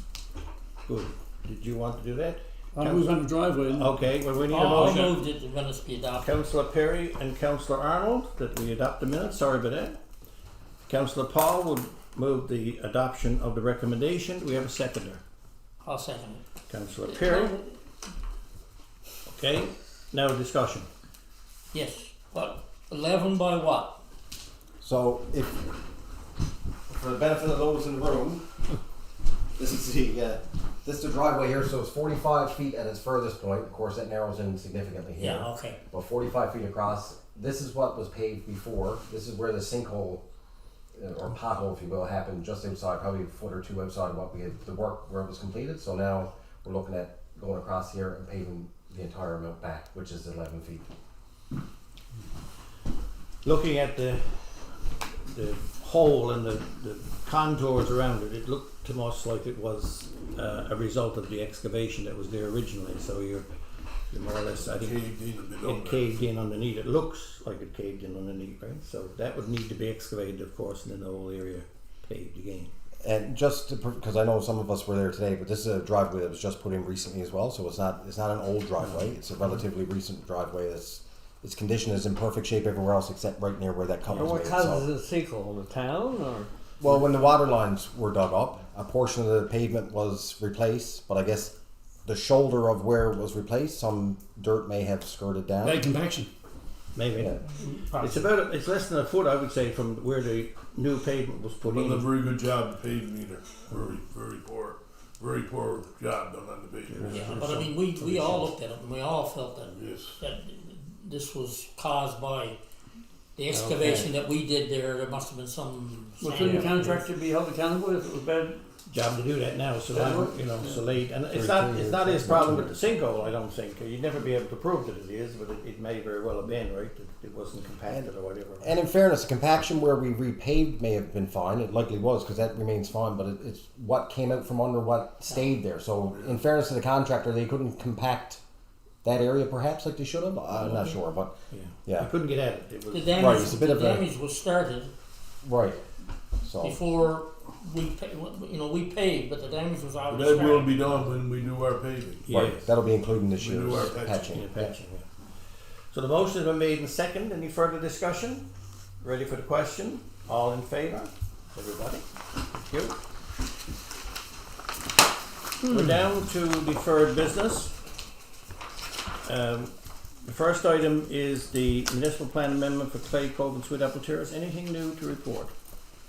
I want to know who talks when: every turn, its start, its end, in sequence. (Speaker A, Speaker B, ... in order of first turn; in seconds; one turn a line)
Speaker A: 0.8-5.1
Speaker B: 2.8-3.9
Speaker C: 4.5-6.3
Speaker B: 4.7-5.0
Speaker A: 6.2-10.0
Speaker A: 10.9-15.2
Speaker C: 15.8-16.4
Speaker A: 16.7-17.6
Speaker C: 17.1-17.7
Speaker A: 19.3-20.9
Speaker C: 21.7-24.0
Speaker D: 24.8-25.7
Speaker D: 26.9-28.4
Speaker D: 29.6-40.2
Speaker C: 35.2-35.8
Speaker D: 41.0-50.9
Speaker A: 53.4-54.4
Speaker A: 55.2-63.5
Speaker A: 64.1-65.0
Speaker E: 64.7-66.0
Speaker A: 65.6-72.7
Speaker D: 73.0-84.9
Speaker F: 84.4-86.3
Speaker D: 86.8-91.5
Speaker D: 92.0-95.9
Speaker B: 95.6-96.3
Speaker A: 97.0-97.5
Speaker C: 97.6-98.3
Speaker A: 98.0-102.1
Speaker E: 101.6-107.6
Speaker C: 107.1-112.6
Speaker A: 107.1-107.3
Speaker E: 109.7-110.2
Speaker C: 113.4-117.1
Speaker F: 116.2-118.6
Speaker A: 118.9-128.7
Speaker F: 119.9-120.3
Speaker D: 121.3-122.8
Speaker D: 128.6-138.4
Speaker D: 139.0-141.3
Speaker C: 140.7-141.0
Speaker A: 141.5-143.2
Speaker C: 142.9-144.9
Speaker D: 143.1-144.1
Speaker D: 145.4-145.8
Speaker D: 146.4-146.8
Speaker C: 146.6-151.0
Speaker E: 150.1-152.2
Speaker A: 152.2-152.7
Speaker D: 152.3-154.7
Speaker E: 153.4-154.3
Speaker A: 153.7-155.1
Speaker A: 155.9-158.5
Speaker A: 159.0-163.0
Speaker A: 165.7-167.7
Speaker A: 169.2-169.7
Speaker A: 170.2-175.5